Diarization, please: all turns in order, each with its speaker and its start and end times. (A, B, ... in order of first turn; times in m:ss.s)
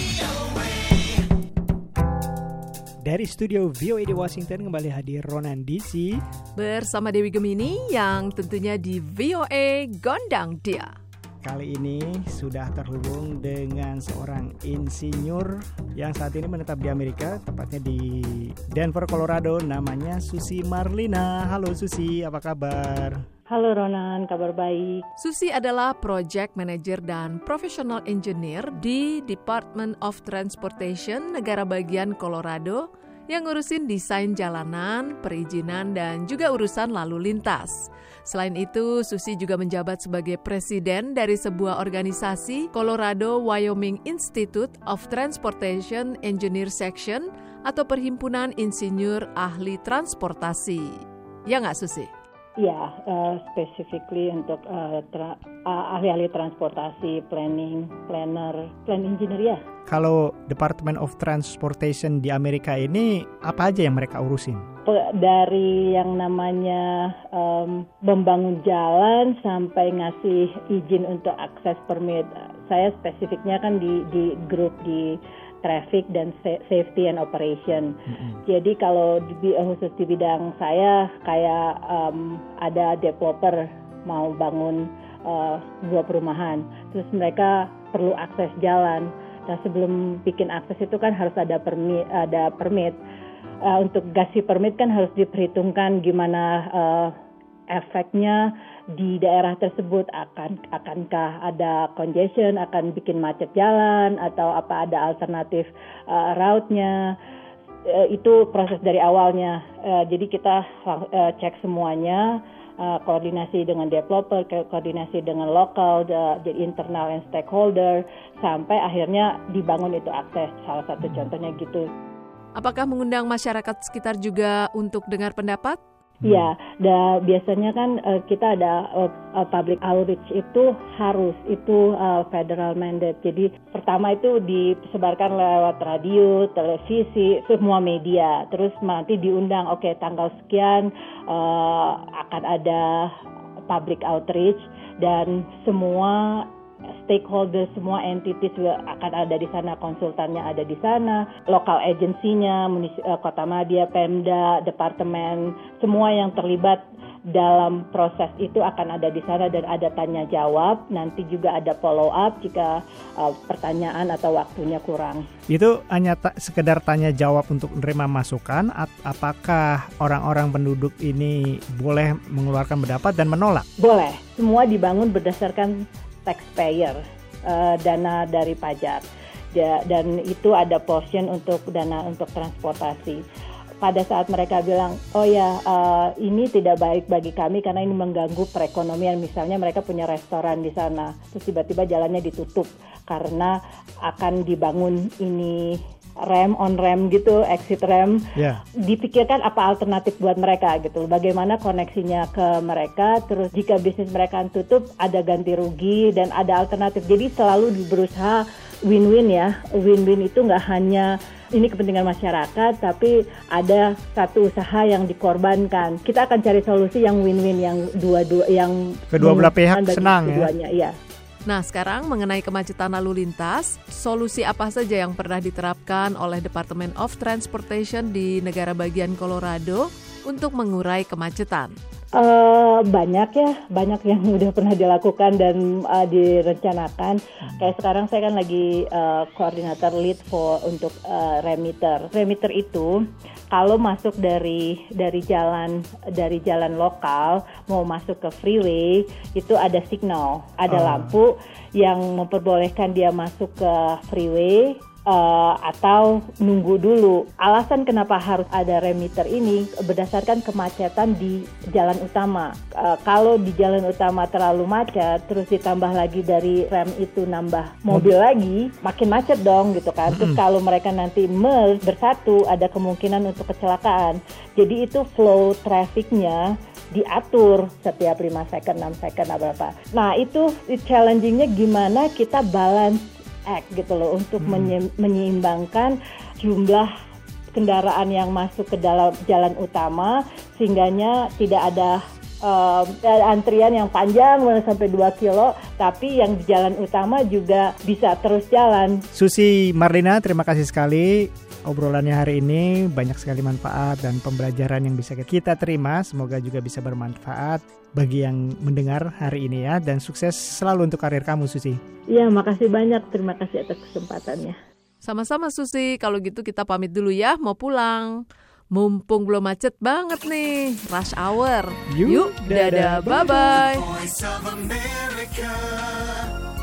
0:03.0-0:06.2 A
0:06.6-0:10.9 B
0:11.4-0:23.2 A
0:23.5-0:25.1 C
0:25.2-0:52.1 B
0:52.6-0:59.6 C
0:59.9-1:04.6 A
1:04.8-1:33.0 C
1:18.1-1:18.4 A
1:33.6-1:37.1 C
1:37.7-1:47.1 C
1:47.8-2:01.9 C
2:02.6-2:05.8 B
2:06.2-2:23.1 C
2:06.2-2:06.5 A
2:23.7-2:26.5 C
2:27.0-2:45.2 C
2:45.5-2:53.6 A
2:53.8-3:03.2 C
3:03.8-3:18.3 C
3:18.4-3:18.6 A
3:18.8-3:40.9 C
3:39.1-3:40.5 A
3:41.4-3:51.7 B
3:52.1-4:03.0 C
4:03.5-4:46.9 C
4:10.7-4:11.2 A
4:30.1-4:30.4 A
4:44.4-4:44.7 A
4:47.5-4:59.0 C
4:59.1-5:11.8 A
5:12.1-5:14.6 C
5:15.0-5:23.9 B
5:21.9-5:26.3 A